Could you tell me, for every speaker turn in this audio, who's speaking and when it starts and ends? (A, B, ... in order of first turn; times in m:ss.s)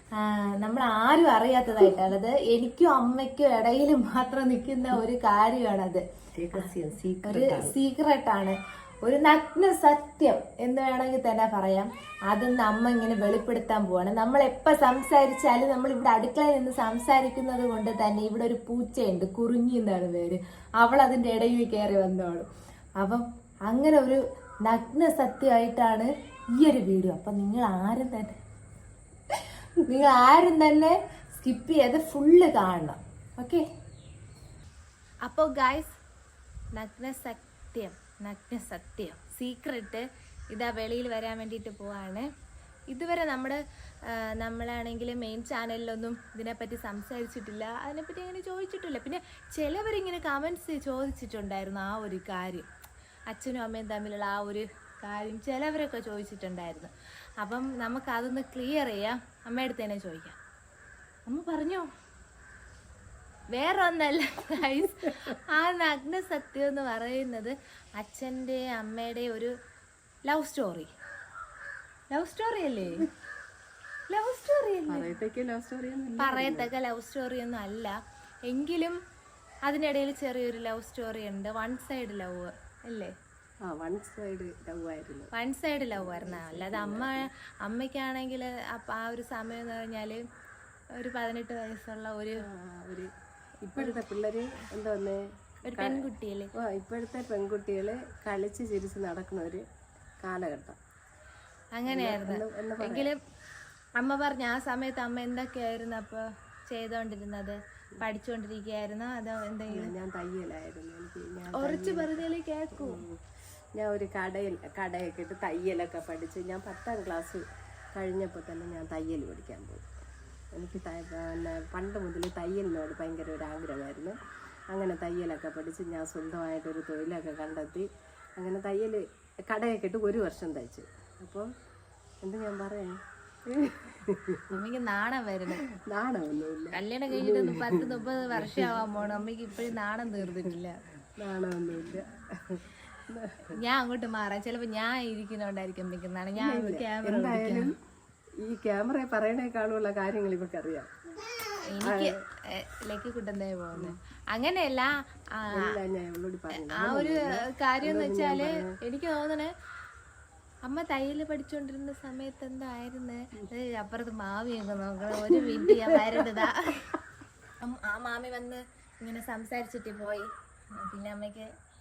0:00.2-0:22.5 A
0:06.3-0:07.7 B
0:23.0-0:28.4 A
0:29.3-0:33.6 A
0:35.2-0:36.0 A
0:36.8-0:42.3 A
0:42.9-0:52.7 A
0:53.3-0:56.9 A
0:57.4-1:00.4 A
1:01.3-1:01.9 A
1:03.5-1:09.5 A
1:10.3-1:10.9 A
1:12.1-1:13.1 A
1:14.1-1:15.1 A
1:14.9-1:16.7 B
1:16.2-1:18.0 A
1:18.5-1:19.0 A
1:19.6-1:23.1 A
1:23.6-1:25.3 B
1:25.3-1:30.2 A
1:26.0-1:27.3 B
1:31.0-1:32.4 A
1:32.4-1:33.1 B
1:33.6-1:35.2 B
1:33.7-1:34.0 A
1:35.7-1:36.5 A
1:35.7-1:39.6 B
1:40.2-1:40.8 B
1:41.8-1:43.2 A
1:41.9-1:43.1 B
1:44.0-1:49.9 A
1:49.7-1:53.2 B
1:51.5-1:53.0 A
1:53.8-1:57.4 B
1:57.9-1:59.8 B
2:00.5-2:04.2 B
2:04.7-2:07.8 B
2:08.4-2:11.5 B
2:12.2-2:12.9 B
2:13.4-2:14.6 B
2:14.5-2:15.6 A
2:15.5-2:19.0 B
2:16.7-2:20.8 A
2:21.2-2:23.6 B
2:23.5-2:27.7 A
2:26.4-2:27.7 B
2:28.4-2:30.9 B
2:31.7-2:35.7 A
2:31.8-2:32.1 B
2:35.5-2:38.7 B
2:36.5-2:39.5 A
2:40.6-2:47.0 A
2:45.3-2:46.4 B
2:47.6-2:51.5 A